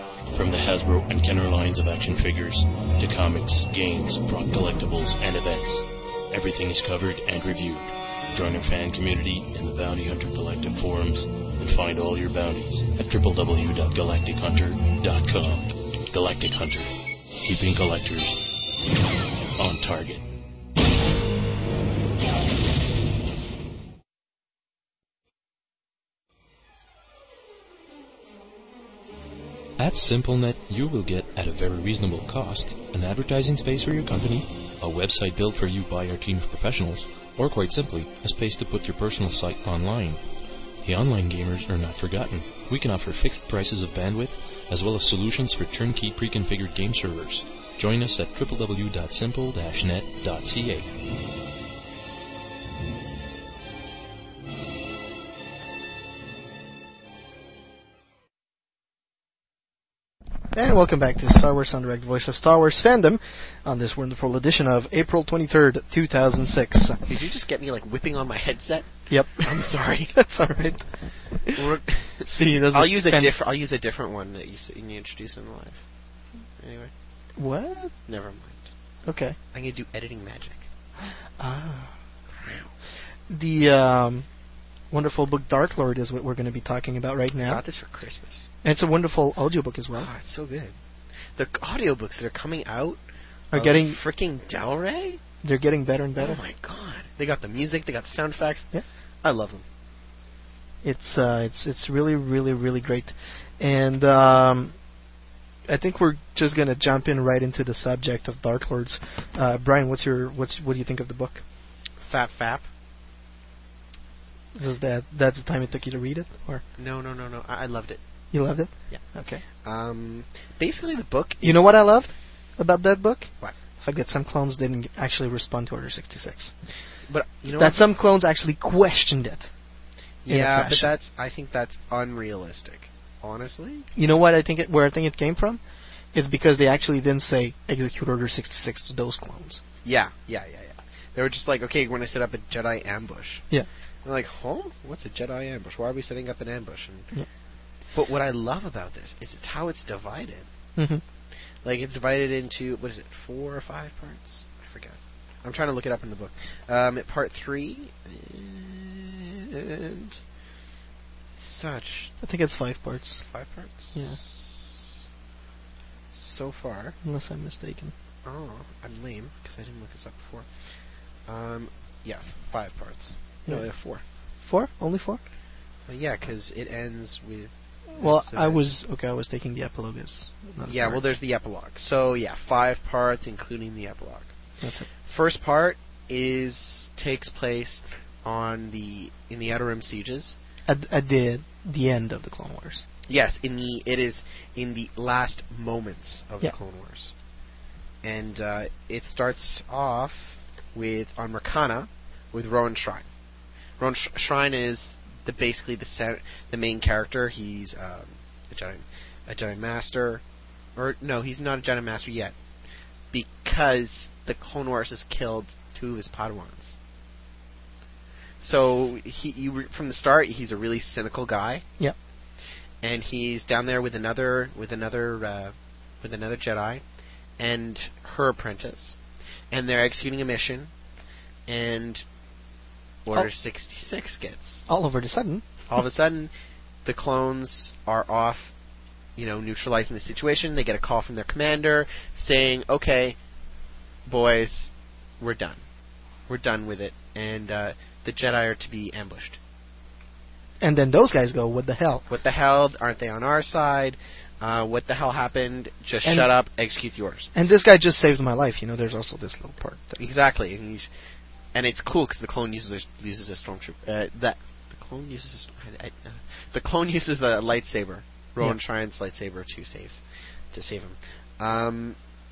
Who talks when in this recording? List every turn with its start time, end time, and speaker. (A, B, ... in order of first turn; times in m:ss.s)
0:00.3-0:16.9 A
0:17.4-0:18.4 A
0:19.6-0:20.2 A
0:29.8-0:40.2 A
0:40.8-0:50.9 A
1:00.5-1:07.0 B
1:07.0-1:10.3 C
1:09.1-1:11.6 B
1:11.5-1:15.8 C
1:12.2-1:13.3 B
1:16.6-1:16.9 C
1:17.4-1:17.9 B
1:18.0-1:18.7 C
1:19.0-1:19.4 B
1:19.5-1:20.7 C
1:21.0-1:22.0 B
1:22.3-1:22.7 C
1:23.3-1:24.3 B
1:24.9-1:27.6 B
1:27.4-1:28.4 C
1:28.6-1:30.1 B
1:29.9-1:35.2 C
1:33.5-1:34.0 B
1:35.4-1:36.4 B
1:36.2-1:38.7 C
1:39.2-1:39.6 C
1:40.8-1:44.8 B
1:45.7-1:51.4 B
1:52.0-1:52.7 C
1:54.5-1:56.6 B
1:56.8-1:58.0 C
1:58.3-1:59.4 B
1:58.9-2:01.8 C
2:01.4-2:06.6 B
2:07.0-2:07.8 C
2:07.5-2:09.6 B
2:10.2-2:13.9 C
2:10.3-2:10.9 B
2:14.0-2:19.6 B
2:19.8-2:23.5 C
2:24.0-2:27.1 C
2:27.9-2:30.5 C
2:30.8-2:31.0 B
2:31.6-2:40.2 C
2:41.4-2:42.1 C
2:42.2-2:43.2 B
2:43.2-2:44.8 C
2:43.9-2:44.2 B
2:46.1-2:47.0 C
2:47.0-2:47.9 B
2:48.2-2:50.5 C
2:51.2-2:54.0 C
2:53.4-2:55.2 B
2:55.8-2:58.6 C
2:57.9-3:01.1 B
3:00.6-3:04.3 C
3:04.6-3:04.9 B
3:05.0-3:10.4 C
3:10.7-3:12.8 B
3:13.1-3:17.1 C
3:18.0-3:23.1 C
3:23.8-3:30.2 C
3:30.7-3:32.4 C
3:33.1-3:36.8 C
3:38.4-3:41.6 C
3:42.8-3:46.8 C
3:47.4-3:49.0 C
3:49.5-3:50.7 C
3:51.5-3:52.0 C
3:53.0-3:54.6 C
3:54.7-3:55.4 B
3:55.7-3:56.3 C
3:56.8-3:58.5 C
3:59.2-4:03.2 C
4:04.0-4:05.6 C
4:06.3-4:09.4 C
4:10.6-4:12.0 B
4:12.1-4:17.3 C
4:16.0-4:16.3 B
4:17.3-4:20.0 B
4:20.0-4:20.9 C
4:21.5-4:32.0 C